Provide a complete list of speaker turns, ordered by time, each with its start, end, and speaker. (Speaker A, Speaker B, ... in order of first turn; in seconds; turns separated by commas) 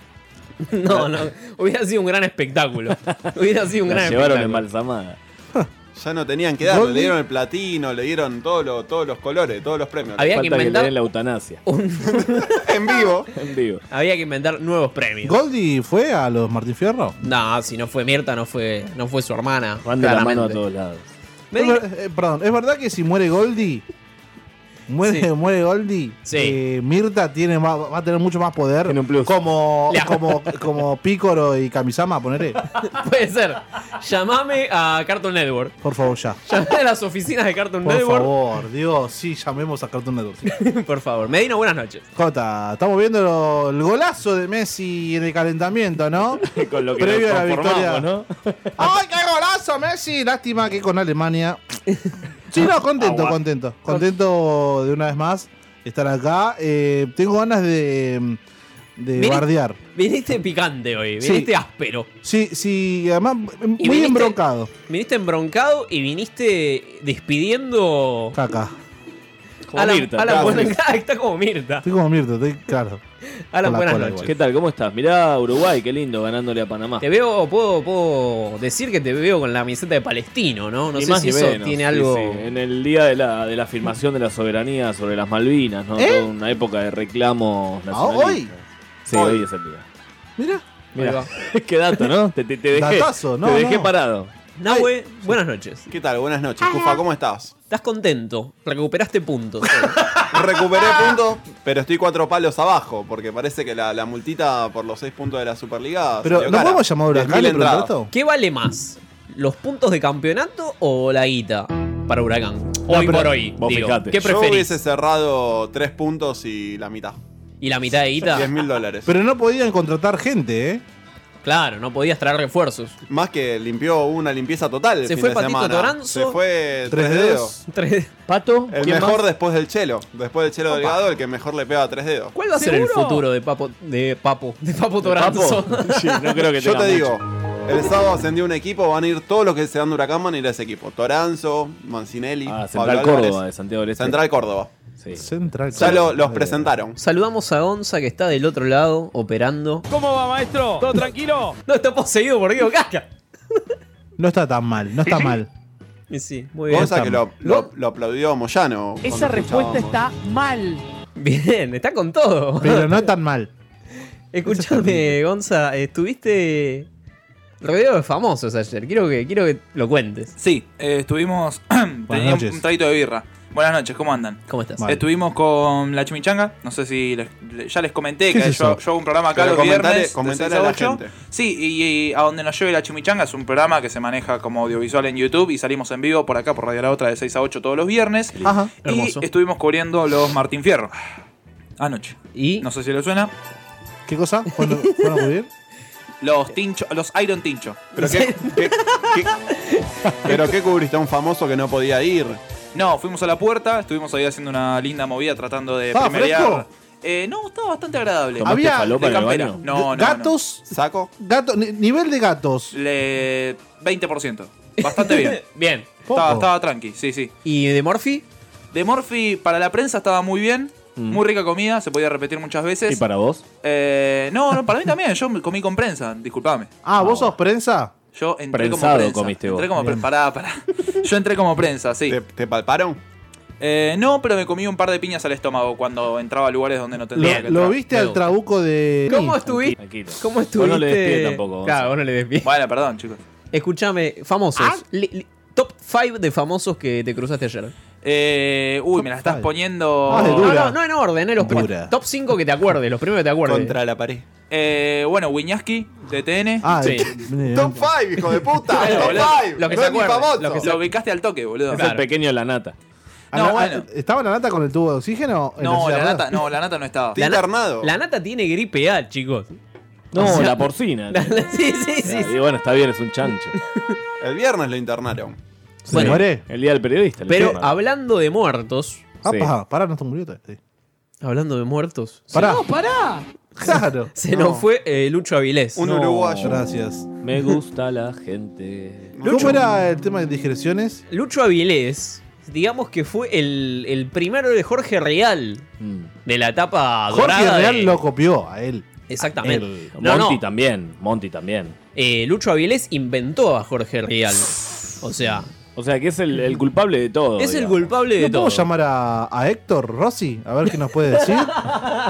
Speaker A: 0.7-4.6, Speaker B: 3.9-5.2, Speaker C: 6.0-10.3, Speaker D: 6.6-7.2, Speaker A: 10.2-10.9, Speaker B: 10.3-11.6, Speaker A: 11.7-12.6, Speaker C: 12.1-13.3, Speaker B: 13.3-13.8, Speaker A: 13.9-15.4, Speaker D: 15.2-17.2, Speaker A: 17.2-20.6, Speaker B: 19.8-21.0, Speaker A: 21.5-21.8, Speaker D: 21.6-23.8, Speaker D: 24.9-32.6, Speaker A: 26.3-26.6, Speaker B: 28.9-29.4, Speaker A: 29.9-30.3, Speaker A: 32.8-35.8, Speaker D: 35.8-36.4, Speaker A: 36.5-38.3, Speaker D: 37.8-40.5, Speaker A: 40.5-42.0, Speaker D: 42.1-46.4, Speaker B: 46.4-48.9, Speaker D: 47.0-48.1, Speaker D: 48.8-51.6, Speaker D: 52.5-58.4, Speaker B: 53.0-53.3, Speaker D: 59.0-59.8, Speaker A: 59.2-62.1, Speaker D: 61.2-61.5, Speaker D: 62.2-64.7, Speaker A: 63.8-64.4, Speaker A: 64.9-68.4, Speaker D: 68.3-68.8, Speaker B: 69.7-70.7, Speaker A: 69.8-71.9, Speaker C: 70.2-70.7, Speaker D: 71.8-73.0, Speaker A: 73.5-74.3, Speaker D: 73.6-74.3, Speaker B: 74.2-77.0, Speaker A: 77.0-82.4, Speaker B: 81.0-89.8, Speaker D: 86.0-86.3, Speaker D: 87.9-88.5, Speaker C: 89.1-89.4, Speaker D: 90.4-90.6, Speaker B: 91.0-94.3, Speaker A: 91.0-91.3, Speaker D: 92.7-93.9, Speaker A: 94.6-95.9, Speaker C: 95.9-97.5, Speaker A: 97.7-99.9, Speaker C: 100.3-107.9, Speaker D: 106.2-108.1, Speaker A: 108.1-114.7, Speaker D: 112.9-113.3, Speaker B: 113.6-114.2, Speaker C: 114.2-117.2, Speaker A: 117.6-118.6, Speaker C: 118.2-119.1, Speaker D: 119.1-120.8, Speaker A: 121.4-123.0, Speaker C: 123.1-127.5, Speaker A: 125.0-126.4, Speaker D: 126.9-127.5, Speaker A: 127.6-128.1, Speaker B: 128.3-129.2, Speaker C: 128.7-132.3, Speaker A: 130.7-131.0, Speaker A: 132.3-136.0, Speaker E: 132.6-133.2, Speaker B: 135.0-137.2, Speaker C: 136.0-143.4, Speaker B: 142.5-144.2, Speaker C: 143.9-144.7, Speaker B: 145.0-146.7, Speaker D: 145.1-146.2, Speaker C: 145.8-147.0, Speaker A: 147.0-149.9, Speaker E: 149.9-151.6, Speaker A: 151.7-153.1, Speaker D: 154.2-155.5, Speaker A: 156.1-157.7, Speaker D: 156.7-157.2, Speaker C: 156.7-160.0, Speaker E: 159.0-160.9, Speaker A: 161.2-163.0, Speaker D: 162.6-163.5, Speaker A: 164.3-166.9, Speaker D: 164.5-165.1, Speaker A: 167.6-170.3, Speaker F: 170.4-190.9, Speaker D: 172.1-172.6, Speaker A: 174.5-174.8, Speaker D: 178.3-178.8, Speaker C: 179.3-181.1, Speaker D: 188.4-188.7, Speaker A: 188.9-189.2, Speaker F: 191.8-193.3, Speaker A: 192.3-192.7, Speaker D: 194.1-195.5, Speaker F: 196.2-197.9, Speaker C: 197.9-199.3, Speaker A: 198.0-200.4, Speaker C: 200.2-202.4, Speaker F: 202.8-210.4, Speaker D: 205.9-206.7, Speaker B: 208.4-209.6, Speaker D: 208.4-209.1, Speaker D: 209.7-210.6, Speaker C: 210.7-211.1, Speaker D: 211.2-212.8, Speaker F: 212.7-215.4, Speaker A: 214.8-215.9, Speaker D: 216.1-216.5, Speaker F: 216.1-217.3, Speaker A: 217.4-218.2, Speaker F: 218.7-223.0, Speaker B: 221.0-221.2, Speaker B: 222.9-223.4, Speaker F: 223.6-226.7, Speaker D: 226.8-227.9, Speaker B: 227.0-227.3, Speaker F: 228.1-232.2, Speaker B: 228.5-229.7, Speaker D: 229.8-230.0, Speaker C: 232.1-233.0, Speaker F: 233.6-237.8, Speaker D: 237.2-239.4, Speaker A: 237.2-238.2, Speaker A: 239.1-242.5, Speaker B: 239.5-241.9, Speaker F: 242.4-243.2, Speaker A: 243.5-247.7, Speaker F: 248.0-250.6, Speaker D: 249.0-249.5, Speaker D: 250.1-250.8, Speaker A: 250.1-253.8, Speaker D: 251.4-251.9, Speaker C: 253.4-254.2, Speaker F: 254.5-256.8, Speaker D: 256.6-257.9, Speaker A: 256.8-257.1, Speaker C: 257.5-260.8, Speaker A: 258.8-260.8, Speaker F: 258.8-259.4, Speaker F: 260.6-261.9, Speaker A: 261.7-262.0, Speaker B: 261.7-262.8, Speaker D: 263.3-266.4, Speaker F: 263.3-263.9, Speaker F: 265.6-267.2, Speaker C: 267.1-267.9, Speaker A: 267.2-269.6, Speaker B: 270.1-273.6, Speaker A: 270.1-272.3, Speaker C: 274.2-275.4, Speaker B: 275.9-277.7, Speaker A: 275.9-276.2, Speaker D: 275.9-276.4, Speaker A: 277.3-279.0, Speaker D: 279.2-280.6, Speaker B: 279.3-279.5, Speaker A: 281.2-282.6, Speaker D: 282.3-282.7, Speaker E: 282.4-283.3, Speaker D: 283.6-284.1, Speaker A: 283.7-285.8, Speaker C: 284.3-284.6, Speaker C: 285.8-286.6, Speaker B: 285.8-286.6, Speaker D: 286.4-287.1, Speaker B: 287.2-289.1, Speaker C: 289.2-289.6, Speaker D: 289.2-291.0, Speaker A: 289.3-289.6, Speaker A: 291.1-295.6, Speaker B: 295.8-296.1, Speaker A: 296.3-297.9, Speaker D: 297.1-298.9, Speaker A: 299.1-300.4, Speaker D: 299.4-299.9, Speaker B: 299.9-301.8, Speaker A: 301.9-305.5, Speaker B: 305.7-307.9, Speaker A: 307.4-308.7, Speaker D: 308.2-311.7